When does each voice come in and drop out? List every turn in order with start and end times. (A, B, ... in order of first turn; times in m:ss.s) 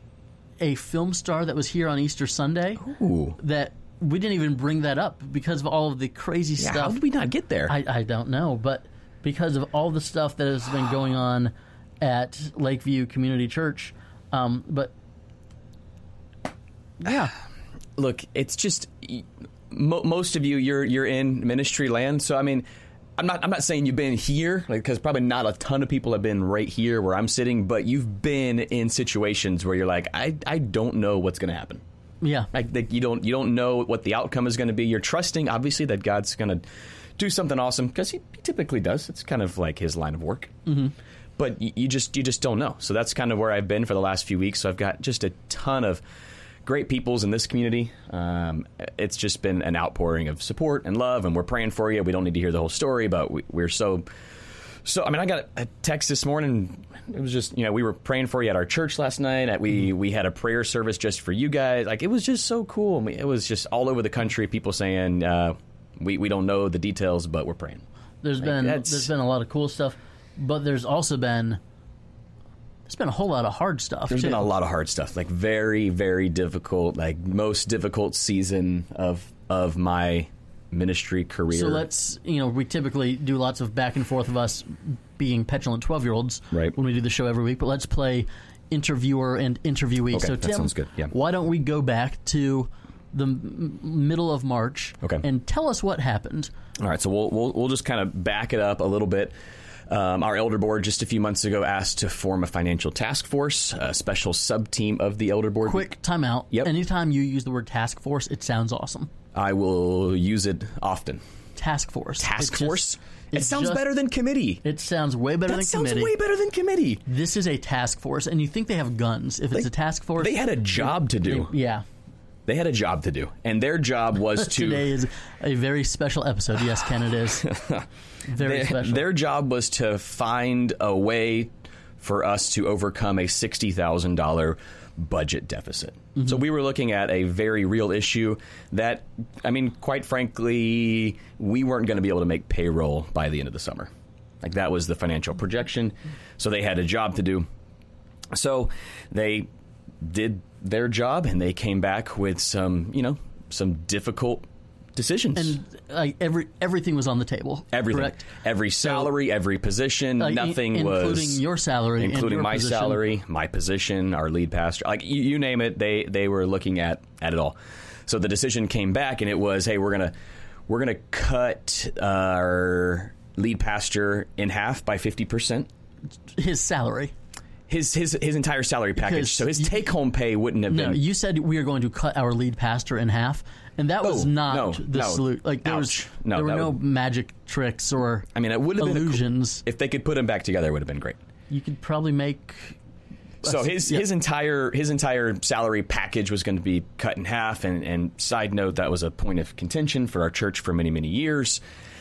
0:00.6-0:02.8 A
0:02.8-0:03.4 B
0:03.4-0:07.0 A
0:06.6-0:07.8 B
0:07.7-0:14.9 A
0:17.0-0:17.3 A
0:18.0-0:22.6 B
0:23.2-0:31.8 B
0:32.2-0:32.5 A
0:32.5-0:36.6 B
0:37.2-0:40.6 B
0:40.7-0:40.9 A
0:41.4-0:46.0 B
0:46.6-0:54.1 B
0:54.8-1:07.8 B
1:08.2-1:11.6 A
1:08.4-1:09.1 B
1:12.9-1:14.4 A
1:14.1-1:21.8 B
1:21.5-1:36.5 A
1:30.1-1:31.1 B
1:36.8-1:39.3 B
1:39.9-1:45.9 B
1:45.6-1:49.1 A
1:49.4-1:51.2 B
1:51.6-1:53.8 A
1:52.2-1:54.6 B
1:54.6-1:56.1 A
1:55.5-1:57.0 B
1:57.1-2:01.8 A
2:00.2-2:01.5 B
2:02.5-2:04.9 B
2:04.4-2:07.5 A
2:07.4-2:07.9 B
2:08.3-2:09.0 A
2:08.4-2:23.9 B
2:24.4-2:27.5 B
2:28.3-2:29.5 B
2:30.0-2:35.6 B
2:35.4-2:38.2 A
2:37.7-2:41.4 B
2:38.8-2:39.1 A
2:40.2-2:43.0 A
2:42.0-2:47.6 B
2:48.1-2:50.1 B
2:50.7-2:55.7 B
2:56.4-2:57.1 A
2:57.7-3:01.0 B
2:59.0-2:59.8 A
3:00.7-3:09.6 A
3:04.0-3:06.8 B
3:08.4-3:11.2 B
3:11.5-3:12.8 A
3:13.4-3:21.6 B
3:13.4-3:14.0 A